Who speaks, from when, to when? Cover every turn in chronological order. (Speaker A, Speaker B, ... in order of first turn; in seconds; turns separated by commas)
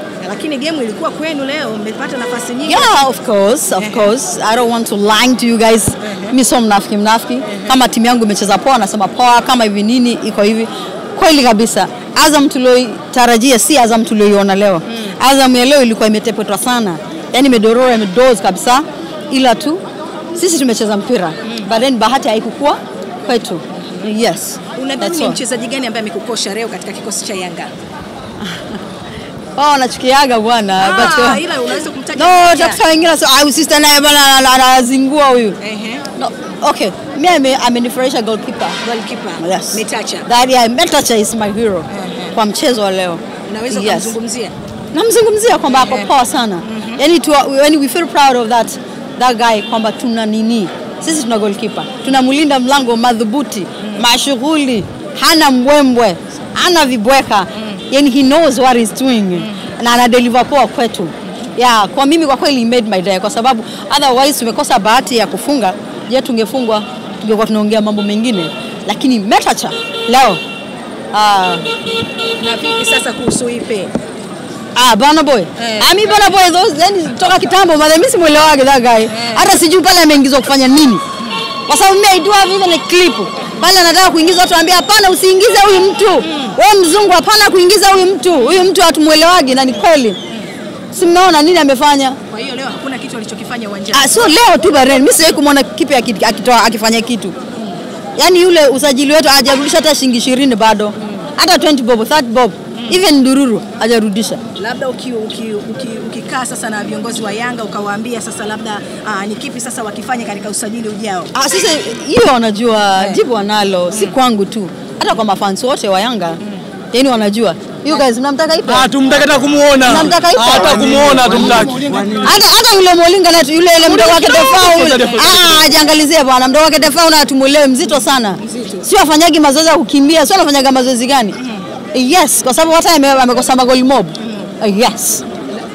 Speaker A: 0.2-3.0, Speaker B: 2.6-19.8, Speaker A: 3.8-4.1, Speaker A: 6.0-6.3, Speaker A: 7.5-7.7, Speaker A: 14.9-15.2, Speaker B: 20.4-25.4, Speaker A: 24.8-27.7, Speaker B: 28.4-28.8, Speaker B: 29.6-31.4, Speaker A: 30.8-32.8, Speaker B: 32.2-35.6, Speaker A: 35.6-36.0, Speaker B: 36.2-38.8, Speaker A: 38.8-40.3, Speaker B: 39.4-44.1, Speaker A: 41.9-42.4, Speaker A: 43.5-44.5, Speaker B: 44.9-70.4, Speaker A: 45.7-46.1, Speaker A: 46.6-47.0, Speaker A: 57.6-57.8, Speaker A: 59.4-59.7, Speaker B: 71.1-71.7, Speaker A: 72.4-73.9, Speaker B: 74.8-81.0, Speaker A: 75.6-75.9, Speaker A: 79.1-79.5, Speaker B: 81.7-90.2, Speaker A: 86.2-86.6, Speaker B: 90.9-92.2, Speaker A: 92.3-94.3, Speaker B: 93.9-97.3, Speaker B: 98.2-104.4, Speaker A: 102.8-103.0, Speaker A: 104.6-111.3, Speaker B: 111.3-116.4, Speaker B: 116.9-118.9, Speaker C: 118.7-122.2, Speaker B: 119.8-121.4, Speaker B: 122.1-131.4, Speaker A: 123.8-125.4, Speaker C: 124.0-125.7, Speaker A: 128.4-128.9, Speaker A: 131.4-131.6, Speaker B: 131.9-135.2, Speaker A: 134.2-134.5